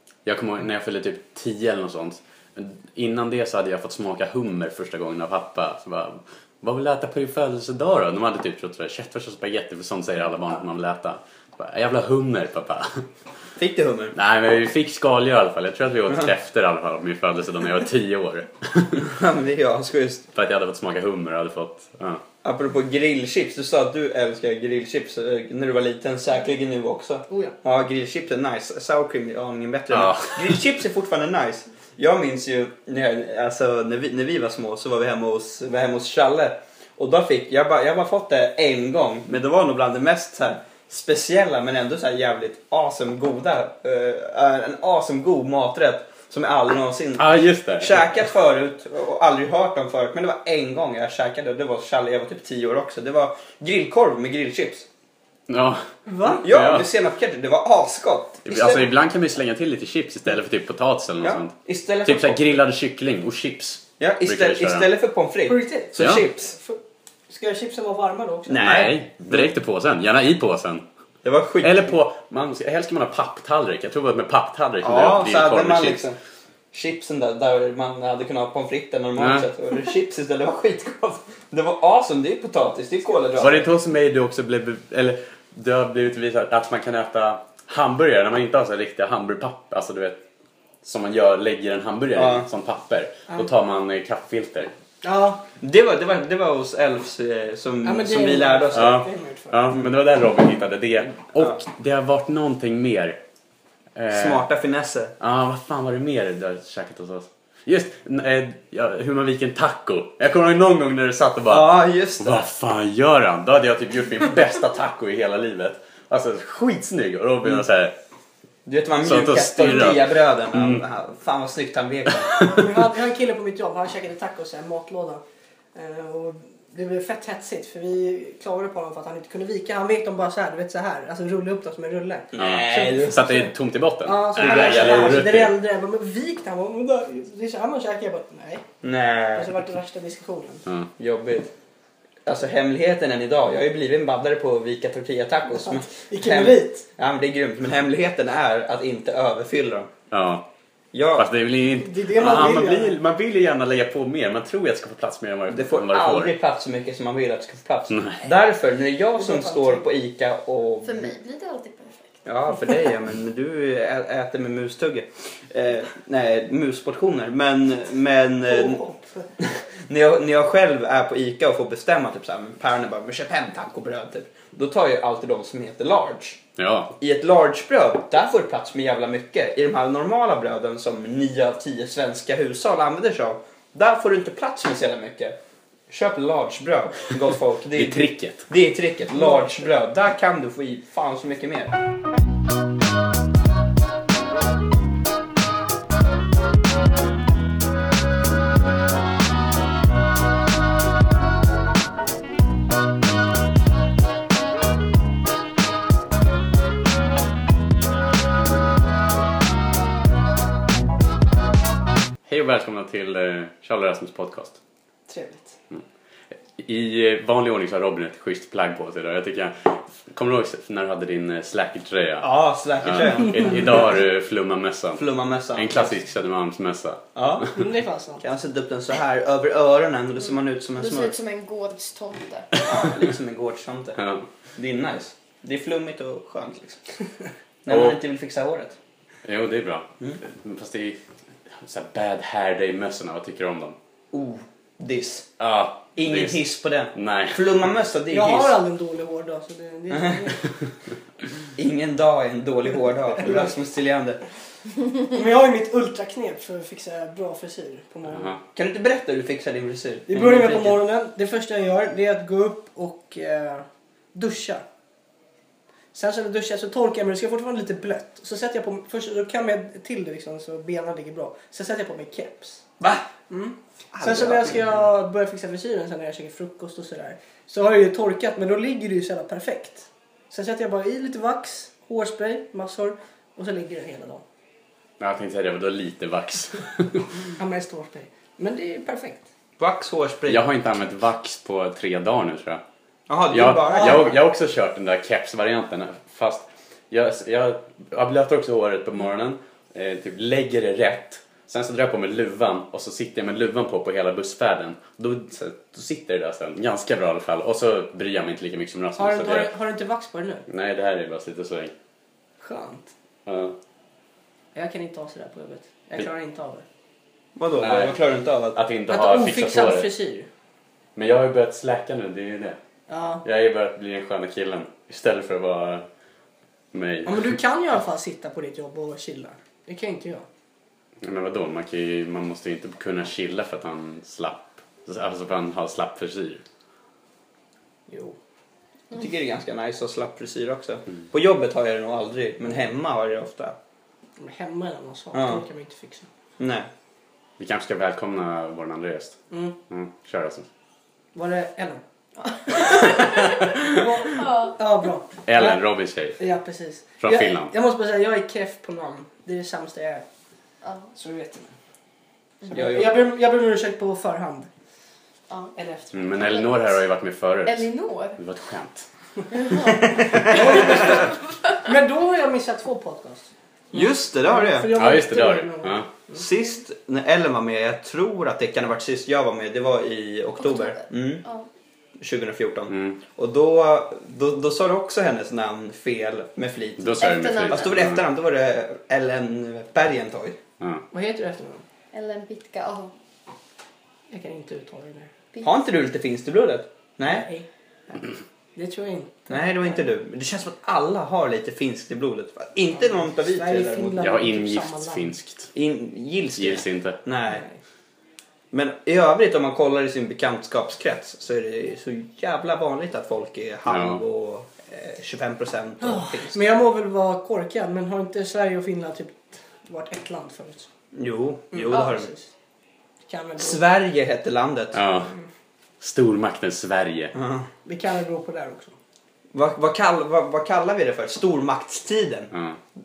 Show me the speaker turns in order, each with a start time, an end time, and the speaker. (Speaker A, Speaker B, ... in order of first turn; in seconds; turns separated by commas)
Speaker A: 0.3-13.1, Speaker B: 13.6-14.2, Speaker A: 14.2-19.1, Speaker B: 19.0-20.3, Speaker A: 20.3-22.2, Speaker B: 22.4-54.9, Speaker A: 29.9-30.6, Speaker A: 47.2-48.1, Speaker A: 55.5-56.9, Speaker C: 56.1-56.4, Speaker B: 56.4-58.9, Speaker A: 58.5-64.9, Speaker B: 61.2-62.5, Speaker B: 64.0-66.5, Speaker C: 65.5-68.7, Speaker A: 66.0-66.2, Speaker B: 68.5-69.4, Speaker A: 68.6-70.8, Speaker B: 71.2-71.9, Speaker A: 71.6-76.0, Speaker B: 74.8-76.2, Speaker B: 76.7-83.7, Speaker A: 79.2-79.5, Speaker A: 83.4-90.2, Speaker A: 90.8-94.7, Speaker B: 92.2-92.5, Speaker C: 95.0-95.4, Speaker B: 95.6-99.0, Speaker C: 97.8-99.6, Speaker A: 98.7-103.2, Speaker A: 104.0-104.5, Speaker B: 104.1-105.2, Speaker A: 105.2-117.9, Speaker B: 111.5-112.5, Speaker B: 118.7-122.3, Speaker A: 119.0-120.8, Speaker A: 122.3-122.6, Speaker C: 122.4-125.2, Speaker C: 125.8-133.5, Speaker B: 132.3-133.2, Speaker A: 132.4-135.5, Speaker C: 134.0-138.7, Speaker B: 134.4-135.3, Speaker B: 138.8-139.6, Speaker C: 139.3-140.7, Speaker B: 141.0-141.5, Speaker B: 142.2-149.9, Speaker C: 145.7-146.8, Speaker A: 150.1-150.4, Speaker B: 150.9-151.3, Speaker A: 151.2-156.3, Speaker C: 151.8-153.0, Speaker B: 155.5-161.1, Speaker A: 157.9-158.2, Speaker C: 159.2-159.8, Speaker D: 160.8-162.2, Speaker B: 162.2-168.8, Speaker C: 168.5-169.3, Speaker B: 169.4-176.4, Speaker A: 176.6-176.9, Speaker B: 177.0-185.4, Speaker B: 185.9-191.8, Speaker A: 187.7-188.5, Speaker A: 212.3-214.6, Speaker C: 215.1-215.6, Speaker A: 216.6-227.5, Speaker B: 222.2-223.9, Speaker B: 225.0-226.0, Speaker B: 227.2-227.5, Speaker C: 227.5-228.2, Speaker B: 228.2-231.2, Speaker D: 230.8-233.0, Speaker B: 232.6-234.0, Speaker A: 234.0-234.3, Speaker B: 234.6-236.8, Speaker B: 237.7-238.8, Speaker A: 237.7-238.0, Speaker A: 239.2-241.0, Speaker A: 241.6-243.8, Speaker B: 244.1-245.3, Speaker A: 245.4-246.4, Speaker B: 246.0-248.6, Speaker A: 246.9-247.4, Speaker C: 248.1-250.4, Speaker B: 249.9-250.2, Speaker B: 251.6-254.2, Speaker C: 255.1-258.4, Speaker A: 258.1-258.4, Speaker B: 258.6-260.8, Speaker C: 260.1-264.6, Speaker C: 265.9-272.6, Speaker B: 272.8-273.1, Speaker C: 273.3-284.2, Speaker B: 273.9-274.7, Speaker A: 285.0-287.1, Speaker C: 287.4-289.2, Speaker B: 289.6-290.4, Speaker A: 290.3-292.6, Speaker B: 293.1-294.1, Speaker A: 293.3-309.5, Speaker C: 293.6-294.0, Speaker C: 309.0-310.4, Speaker A: 310.5-311.7, Speaker C: 312.4-312.9, Speaker A: 313.3-313.6, Speaker C: 314.6-316.6, Speaker B: 317.4-318.6, Speaker A: 317.6-318.0, Speaker A: 318.5-319.9, Speaker C: 318.9-320.3, Speaker A: 321.0-322.6, Speaker C: 322.9-323.2, Speaker A: 323.2-325.9, Speaker A: 326.7-327.4, Speaker C: 327.1-330.2, Speaker A: 331.0-336.4, Speaker C: 337.9-338.2, Speaker B: 338.9-343.6, Speaker C: 344.2-346.1, Speaker B: 345.1-345.4, Speaker B: 346.4-346.7, Speaker A: 347.4-350.5, Speaker C: 349.3-349.6, Speaker C: 351.1-351.8, Speaker D: 352.3-354.6, Speaker C: 352.5-355.6, Speaker A: 353.3-353.7, Speaker A: 355.3-356.2, Speaker C: 356.2-360.1, Speaker A: 357.0-357.5, Speaker D: 360.6-360.9, Speaker C: 360.9-361.5, Speaker C: 362.5-364.5, Speaker B: 362.5-363.0, Speaker C: 365.6-366.0, Speaker A: 365.9-368.9, Speaker D: 366.1-366.7, Speaker D: 367.5-368.2, Speaker D: 369.3-371.1, Speaker B: 370.1-370.4, Speaker C: 370.1-373.3, Speaker B: 373.7-374.8, Speaker C: 374.2-376.2, Speaker A: 374.7-375.9, Speaker B: 376.1-381.2, Speaker D: 380.4-381.5, Speaker B: 382.0-390.4, Speaker A: 382.7-383.0, Speaker A: 386.8-388.0, Speaker D: 387.0-387.7, Speaker C: 390.9-391.6, Speaker D: 391.9-392.9, Speaker C: 394.1-395.1, Speaker B: 395.4-397.3, Speaker C: 397.1-398.0, Speaker C: 398.6-399.3, Speaker B: 399.3-404.1, Speaker C: 402.8-405.1, Speaker A: 404.0-405.5, Speaker B: 405.6-407.4, Speaker A: 406.4-407.0, Speaker C: 407.3-407.6, Speaker B: 408.5-416.4, Speaker A: 413.7-414.0, Speaker C: 415.8-420.7, Speaker B: 420.9-422.1, Speaker C: 421.5-422.3, Speaker C: 423.1-423.6, Speaker B: 423.4-424.8, Speaker A: 424.7-425.1, Speaker A: 425.8-427.1, Speaker B: 427.1-427.5, Speaker C: 427.6-428.8, Speaker B: 429.3-432.3, Speaker A: 432.3-432.6